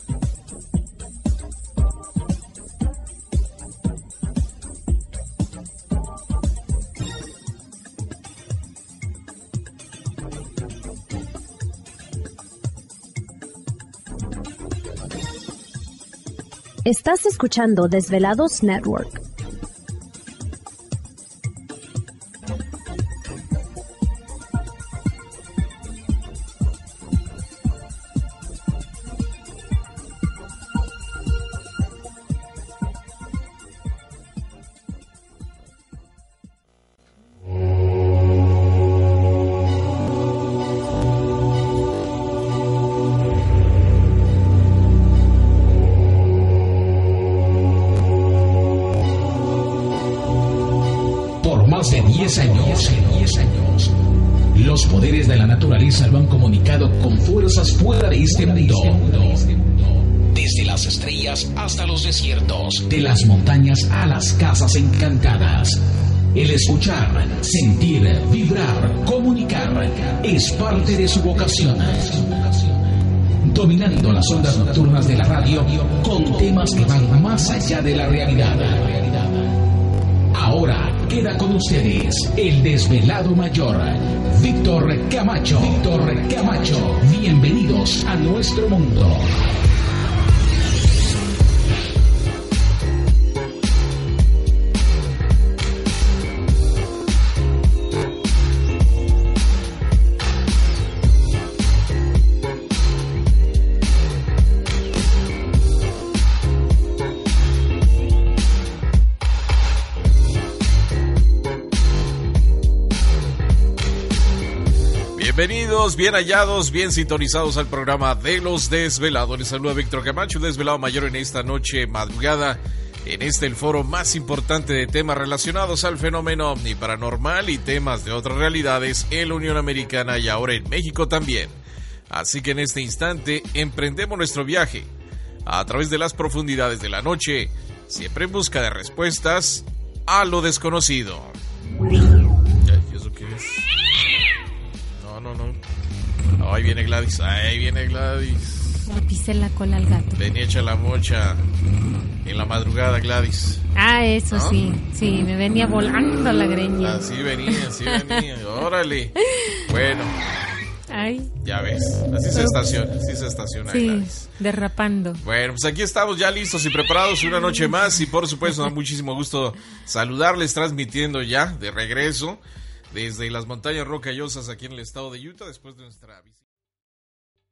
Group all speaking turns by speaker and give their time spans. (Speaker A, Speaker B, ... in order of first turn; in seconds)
Speaker A: 16.9-19.2
Speaker B: 51.4-53.9, 54.5-59.6, 60.1-65.8, 66.3-72.5, 73.4-79.1, 80.3-89.4
Speaker C: 115.2-131.6, 132.1-134.9, 135.5-141.3, 142.6-143.7, 145.0-145.6, 146.4-148.8, 150.2-151.5, 152.2-153.6, 154.3-154.6, 156.8-160.2, 161.4-164.3, 165.2-176.4
Speaker D: 148.9-150.2, 153.8-158.2, 160.9-161.3, 162.3-162.7, 163.7-165.2